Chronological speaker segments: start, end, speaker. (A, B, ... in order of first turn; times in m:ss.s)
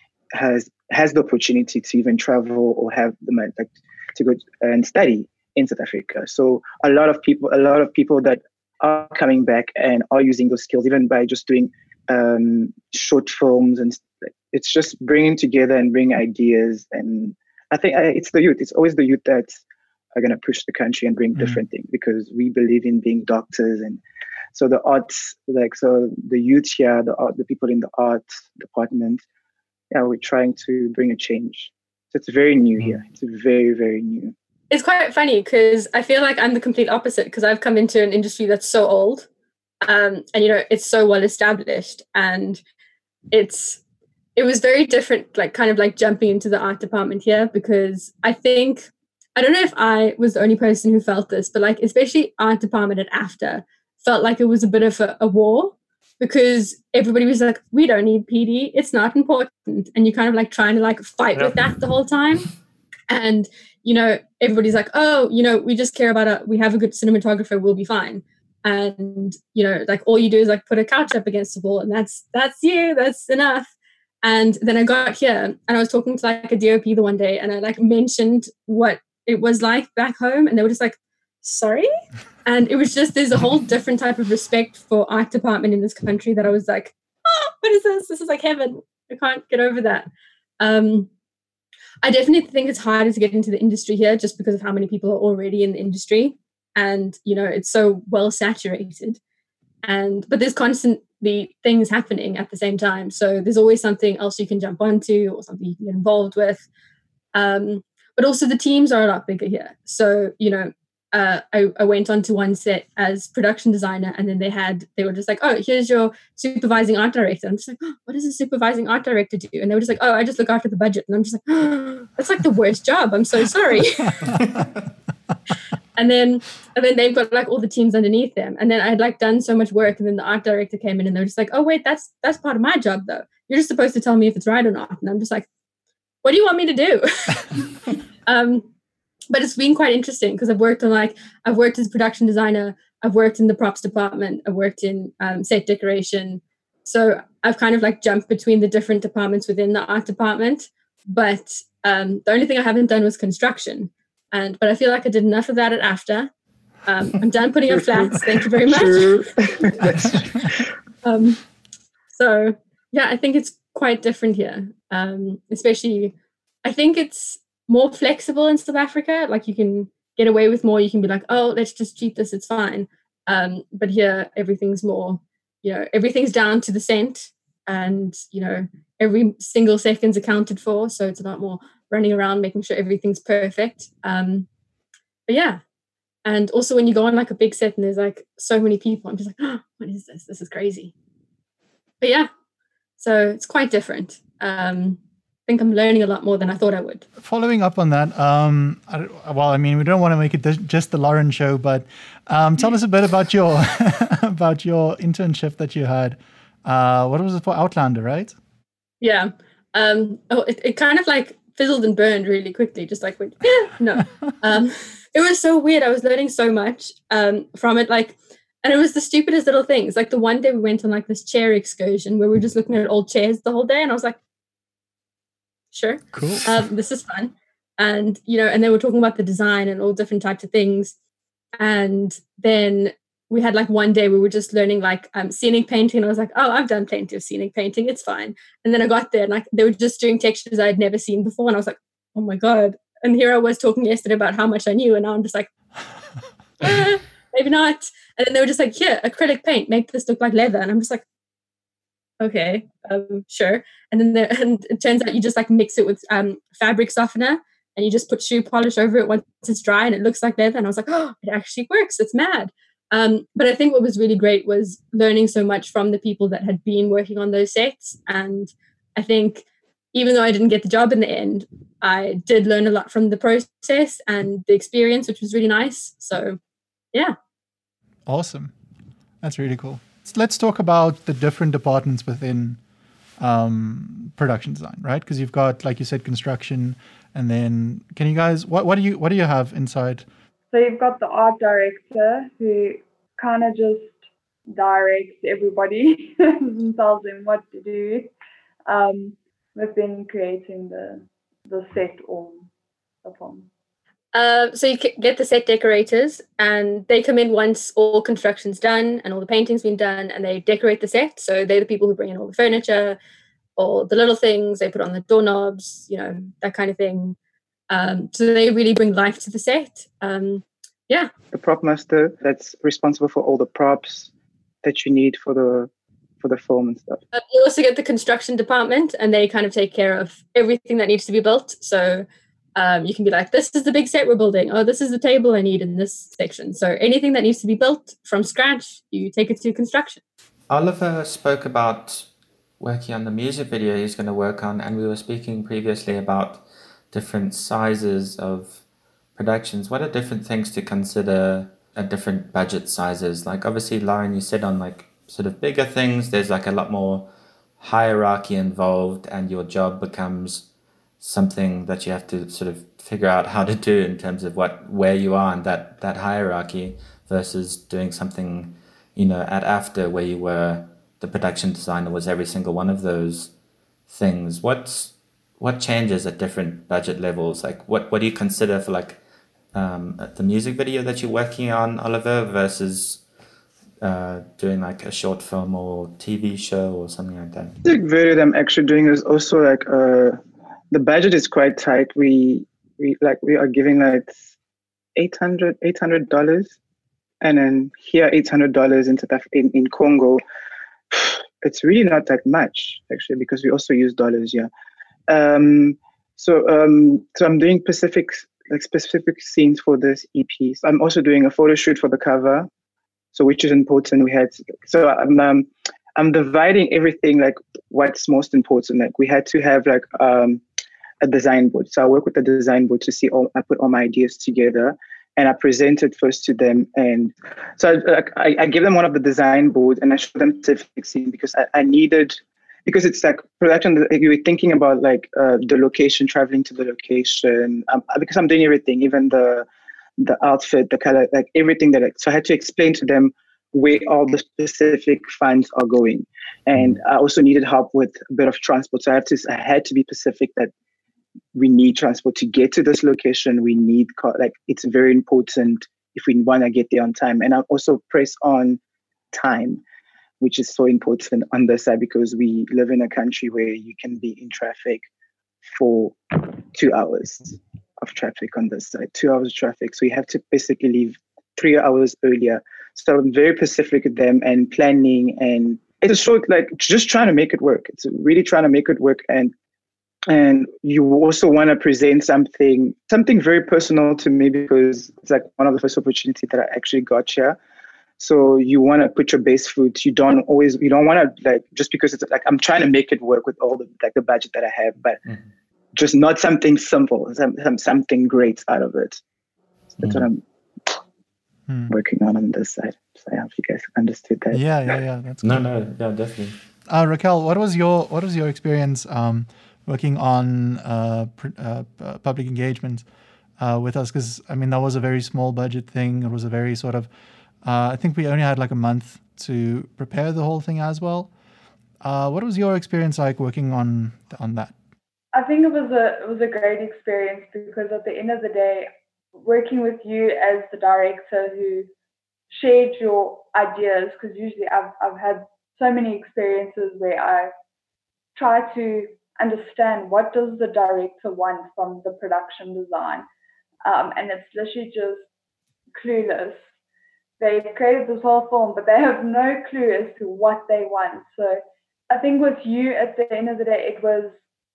0:00.3-0:19.6 A
0:20.2-0:24.0 A
0:21.4-0:21.6 B
0:24.5-0:29.2 A
0:29.9-0:34.3 A
0:34.7-0:39.3 C
0:39.8-0:42.6 C
0:43.3-0:43.8 C
0:44.4-1:02.5 C
1:03.1-1:13.7 C
1:14.2-1:21.9 C
1:22.5-1:30.1 C
1:30.6-1:31.1 C
1:32.0-1:39.2 C
1:39.8-1:46.6 C
1:47.3-2:04.4 C
2:04.4-2:04.7 D
2:06.0-2:15.5 C
2:16.2-2:17.7 C
2:18.3-2:18.7 C
2:19.3-2:36.3 C
2:36.9-2:39.8 C
2:37.7-2:40.7 A
2:41.0-2:41.4 C
2:42.1-3:04.5 C
3:05.3-3:05.6 C
3:06.2-3:10.9 C
3:12.0-3:12.3 C
3:13.0-3:17.0 C
3:17.2-3:28.4 B
3:29.0-3:44.2 C
3:45.7-3:50.9 C
3:46.1-3:46.5 B
3:51.6-4:05.5 C
4:06.6-4:11.0 C
4:12.2-4:36.4 C
4:38.1-4:38.5 B
4:39.2-4:42.6 B
4:43.2-4:50.1 B
4:50.5-4:54.0 E
4:54.5-4:58.1 E
4:58.7-5:02.4 E
5:03.0-5:03.5 E
5:04.1-5:13.0 C
5:13.6-5:17.2 C
5:17.7-5:21.1 C
5:21.3-5:24.1 A
5:24.6-5:25.7 A
5:26.2-5:27.0 A
5:27.1-5:40.0 C
5:40.5-5:42.1 D
5:42.6-5:48.6 D
5:49.2-6:00.5 D
6:01.0-6:13.3 D
6:13.9-6:19.0 D
6:19.5-6:23.0 D
6:23.8-6:27.6 D
6:27.6-6:30.2 A
6:30.7-6:34.2 A
6:35.0-6:36.6 A
6:37.2-6:40.2 A
6:40.9-6:44.5 A
6:45.1-6:52.5 A
6:53.1-7:00.4 A
7:01.0-7:19.5 A
7:20.0-7:30.5 A
7:31.4-7:38.6 A
7:39.1-7:39.6 A
7:40.2-7:44.8 A
7:45.6-7:59.3 A
8:00.1-8:07.4 A
8:08.0-8:15.0 A
8:15.8-8:19.0 A
8:19.8-8:20.8 A
8:19.8-8:20.1 D
8:21.5-8:21.7 B
8:21.7-8:24.7 A
8:24.3-8:25.5 B
8:25.2-8:26.4 D
8:26.7-8:32.8 B
8:33.4-8:36.9 B
8:37.4-8:41.1 B
8:41.8-8:44.5 B
8:45.1-8:51.7 E
8:52.3-8:57.3 E
8:58.2-9:03.0 E
9:03.6-9:05.1 E
9:05.8-9:06.4 E
9:07.2-9:14.2 E